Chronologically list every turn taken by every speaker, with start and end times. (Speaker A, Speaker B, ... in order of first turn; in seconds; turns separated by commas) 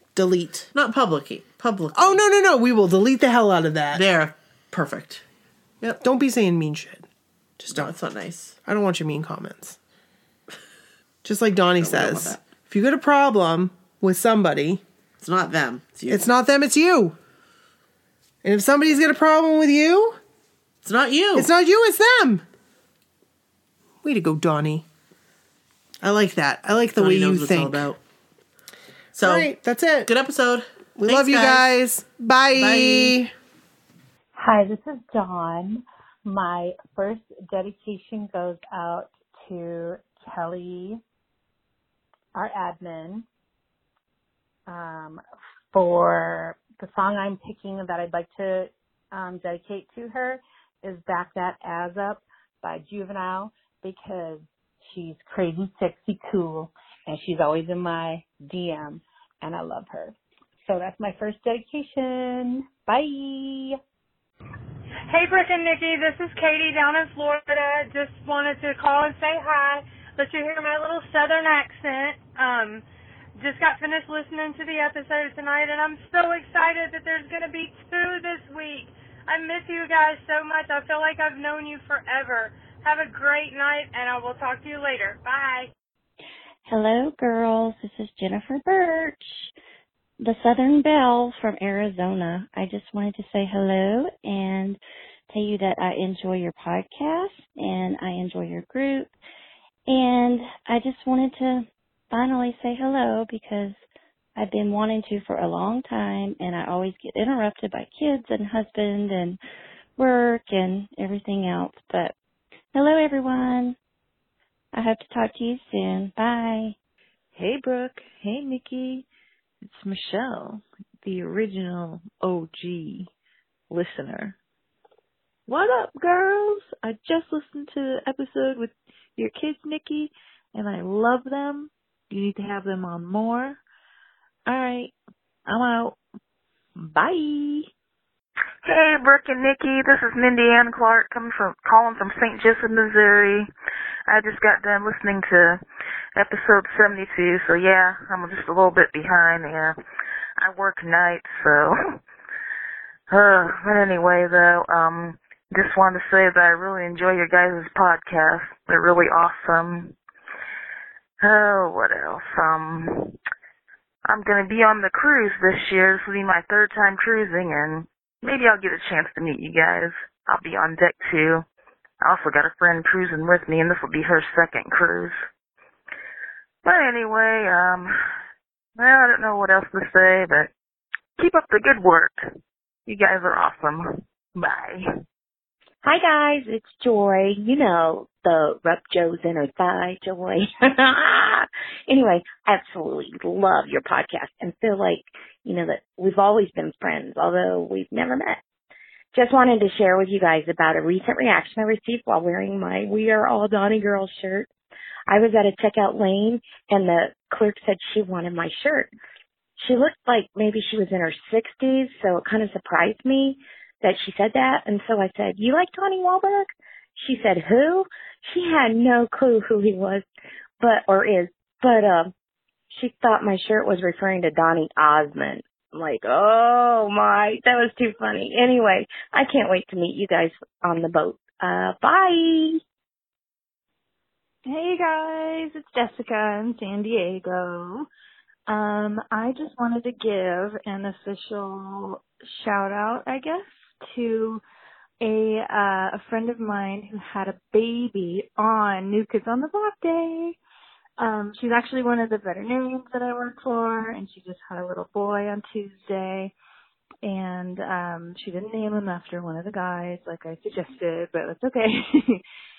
Speaker A: 0.1-0.7, Speaker B: 0.7-2.2, Speaker A: 1.9-4.0, Speaker B: 3.9-5.2, Speaker A: 6.0-7.1, Speaker A: 7.6-7.9, Speaker B: 7.7-8.6, Speaker A: 8.7-9.8, Speaker A: 11.2-14.8, Speaker B: 11.8-12.4, Speaker B: 15.2-16.3, Speaker A: 16.1-17.2, Speaker A: 18.4-20.2, Speaker B: 20.8-21.5, Speaker A: 21.4-22.4, Speaker A: 24.0-24.9, Speaker A: 26.0-27.8, Speaker B: 27.0-28.0, Speaker B: 29.1-29.5, Speaker A: 29.2-30.1, Speaker B: 30.1-31.7, Speaker A: 31.0-33.3, Speaker B: 32.5-33.2, Speaker C: 34.4-41.0, Speaker C: 42.4-43.3, Speaker C: 44.7-63.8, Speaker D: 65.1-72.8, Speaker D: 73.4-85.7, Speaker E: 86.7-89.5, Speaker E: 90.2-94.8, Speaker E: 95.3-99.1, Speaker E: 99.9-103.8, Speaker E: 104.4-109.4, Speaker E: 110.0-112.1, Speaker E: 112.7-113.8, Speaker E: 114.7-116.8, Speaker F: 117.3-119.1, Speaker F: 119.6-123.1, Speaker F: 123.7-124.4, Speaker F: 125.5-133.6, Speaker F: 134.5-134.9, Speaker F: 135.5-136.0, Speaker F: 136.8-137.7, Speaker G: 138.6-143.5, Speaker G: 144.1-145.6, Speaker G: 146.2-149.8, Speaker G: 150.4-152.0, Speaker G: 153.1-159.9, Speaker G: 161.2-163.2, Speaker G: 164.1-171.4, Speaker G: 172.0-175.2, Speaker G: 176.6-178.0, Speaker G: 178.8-180.5, Speaker G: 181.2-182.3, Speaker G: 182.9-184.9, Speaker H: 185.8-198.4, Speaker H: 199.1-204.5, Speaker H: 205.1-208.9, Speaker H: 209.6-220.0, Speaker H: 220.6-222.1, Speaker H: 222.7-232.6, Speaker I: 234.4-237.9, Speaker I: 238.5-244.4, Speaker I: 245.0-250.4, Speaker I: 251.0-256.3, Speaker I: 257.0-262.2